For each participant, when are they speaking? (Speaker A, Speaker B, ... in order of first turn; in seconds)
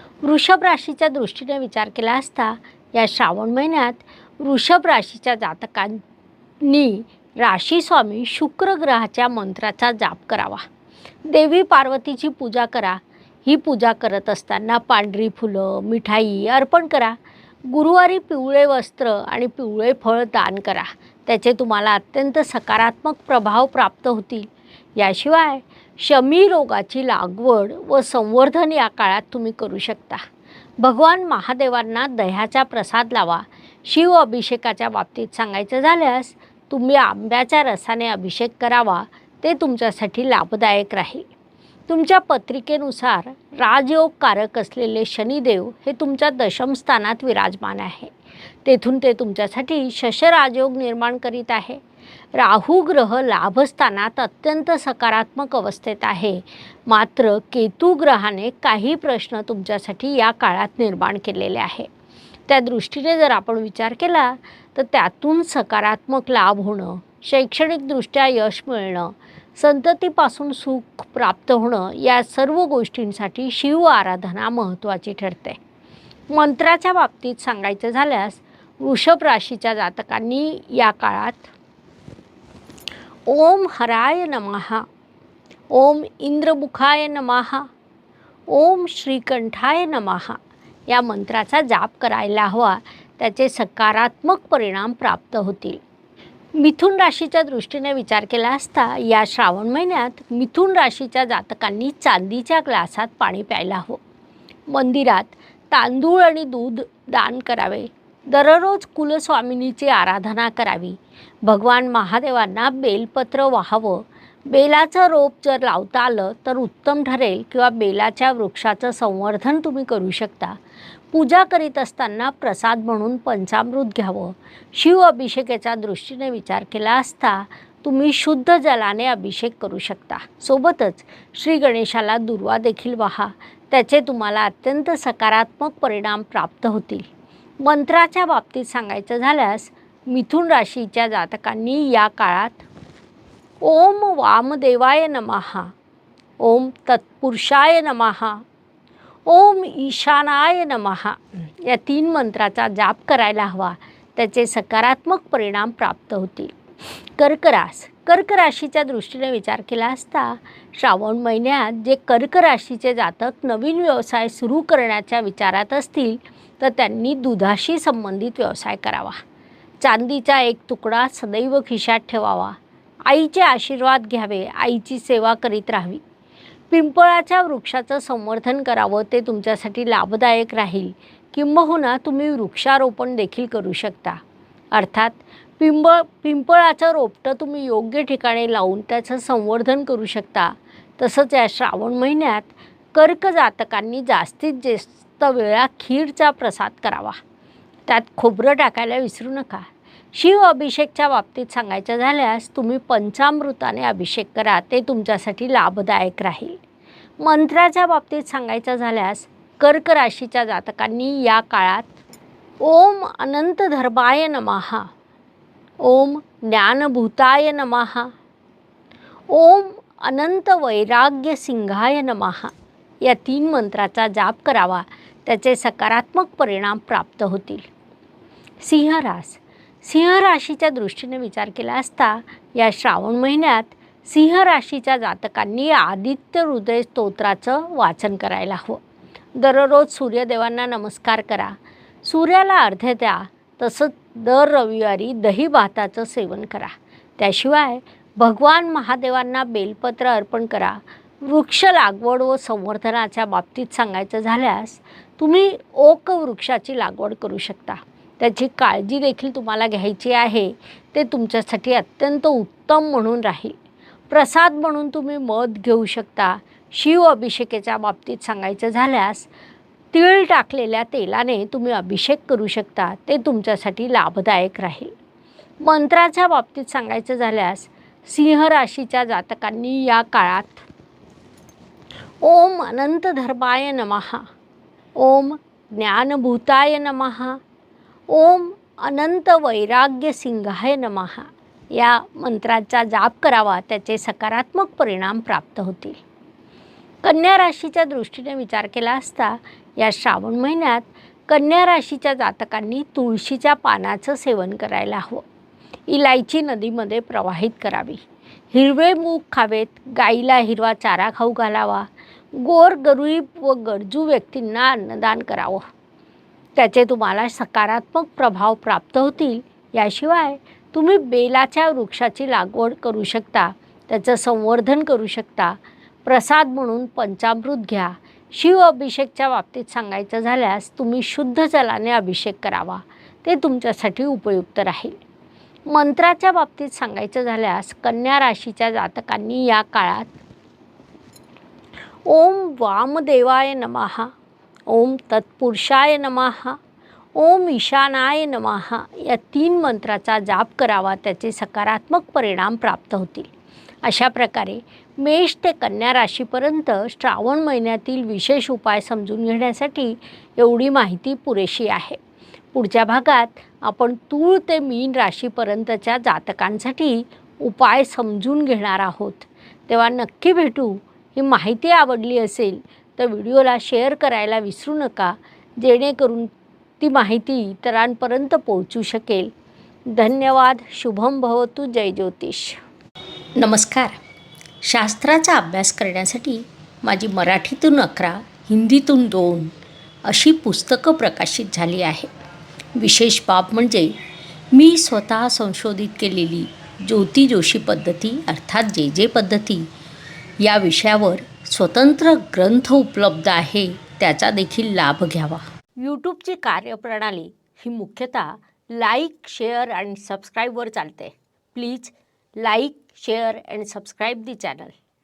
Speaker A: 0.2-6.0, 6.6-10.7, 11.3-17.2, 17.7-30.2, 30.8-41.3, 41.9-48.1, 48.6-51.8, 52.4-61.9, 62.5-75.6, 76.3-81.5, 83.3-84.8, 85.7-87.7, 88.5-95.8, 96.5-104.0, 104.7-120.6, 121.1-137.1, 137.6-142.7, 143.6-145.7, 146.4-148.4, 149.3-156.6, 157.2-169.2, 169.8-172.6, 173.1-176.0, 176.7-184.2, 184.7-197.2, 197.9-206.6, 207.2-211.9, 212.6-214.9, 215.8-218.1, 219.3-227.7, 228.6-238.8, 239.4-263.6, 264.1-269.3, 269.9-274.9, 275.6-280.7, 282.2-284.3, 285.0-287.4, 288.1-296.0, 297.0-305.2, 305.9-315.6, 316.6-335.0, 335.7-340.1, 342.1-344.1, 344.7-346.6, 347.2-353.3, 353.8-362.0, 362.5-379.3, 379.9-382.6, 383.4-384.0, 384.6-392.1, 392.8-393.9, 394.5-399.7, 400.4-414.8